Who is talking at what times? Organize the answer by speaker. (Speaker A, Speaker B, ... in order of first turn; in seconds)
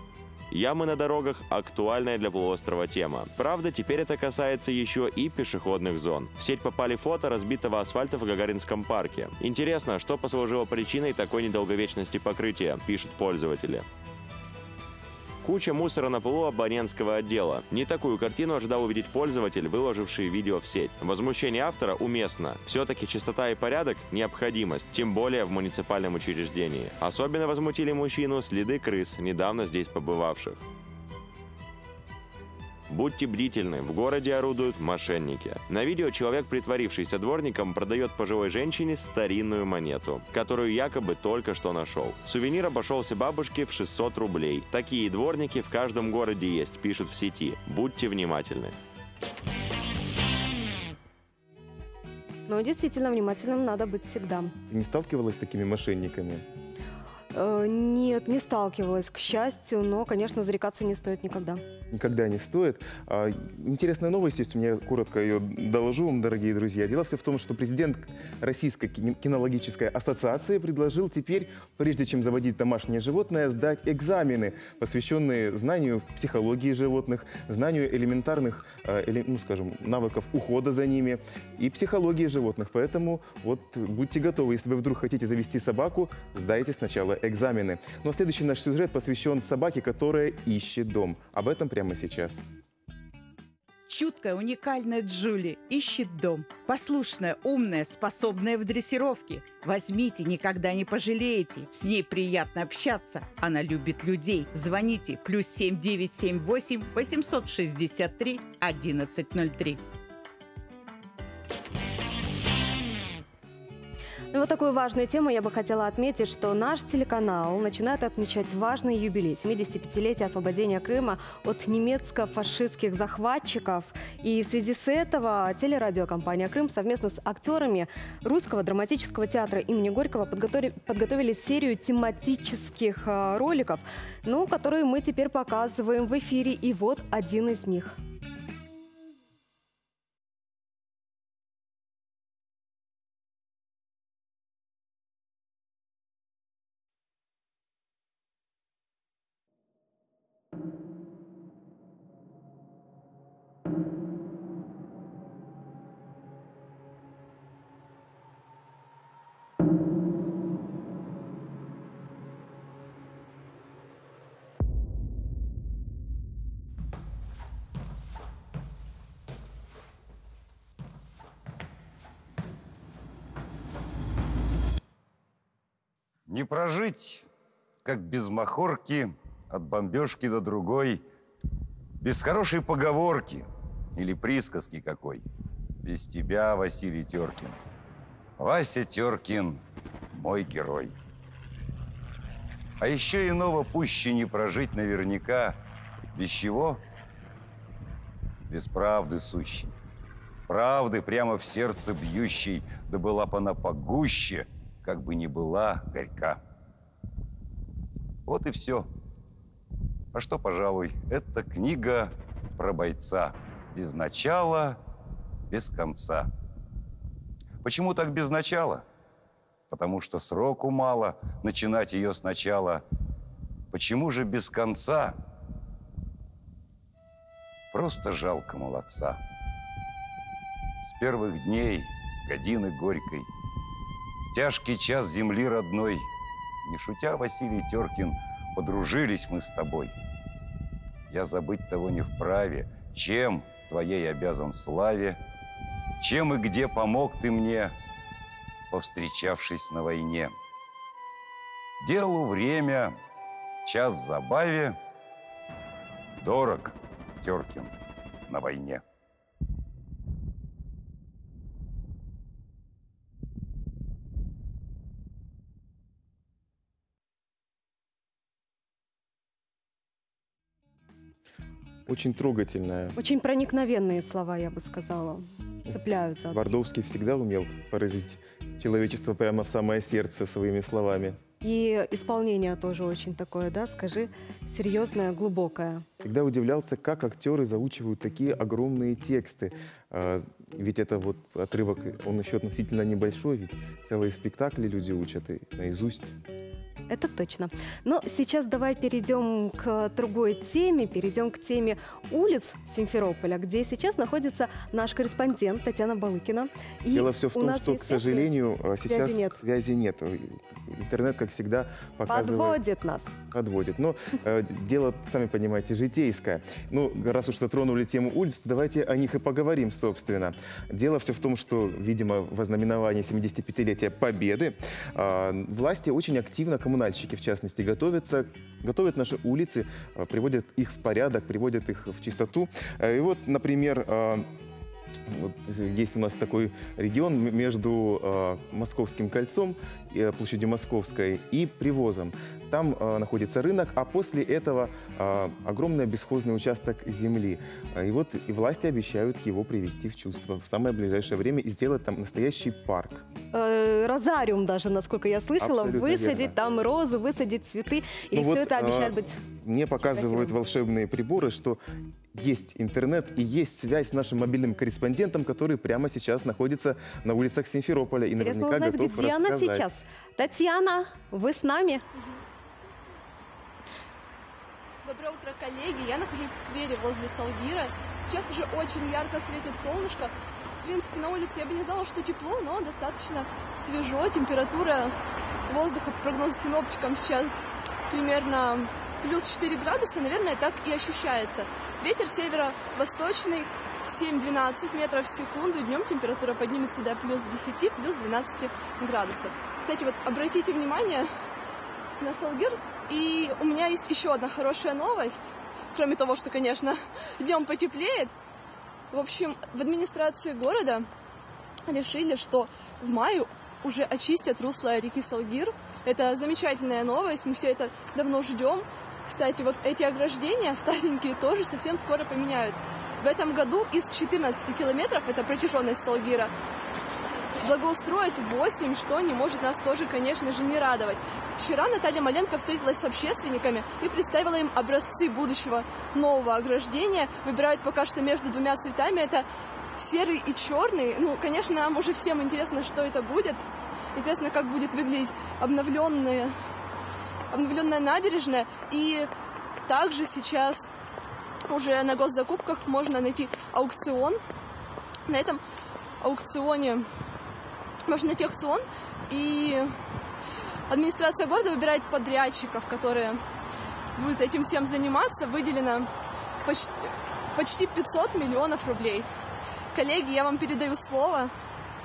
Speaker A: 0.5-13.8, 15.4-30.6, 32.9-48.7
Speaker B: 52.5-54.5, 57.3-61.6, 114.3-138.0, 273.0-276.4, 281.4-285.9, 296.9-308.3, 308.9-309.4, 312.1-313.1, 353.3-359.2, 359.9-360.3, 368.2-371.8
Speaker C: 54.7-56.4, 61.9-92.4, 271.9-272.9, 276.3-281.2, 286.0-296.1, 306.9-312.6, 313.3-334.2, 335.1-353.0, 355.4-356.3, 358.1-361.6, 362.1-369.7
Speaker D: 93.9-109.8
Speaker E: 176.3-177.2, 177.8-181.0, 182.0-185.2, 185.8-187.6, 188.4-189.6, 190.1-190.9, 192.8-195.6, 196.1-196.8, 198.5-199.7, 200.5-206.4, 208.3-208.9, 210.1-214.8, 215.5-216.3, 217.6-218.8, 219.7-222.8, 223.7-225.2, 227.7-229.2, 230.8-233.3, 234.3-236.1, 236.6-239.9, 241.1-245.2, 246.0-247.7, 248.7-250.3, 251.8-253.0, 253.6-254.8, 256.2-257.7, 258.3-258.8
Speaker F: 374.8-384.9, 385.5-401.1, 402.0-408.1, 408.9-410.9, 411.7-426.3, 427.4-443.4, 443.9-446.3, 447.3-449.1, 449.7-450.7, 451.5-454.2, 455.1-455.4, 456.0-456.9, 457.9-459.7, 460.7-463.2, 463.9-465.9, 466.4-469.1, 469.7-471.3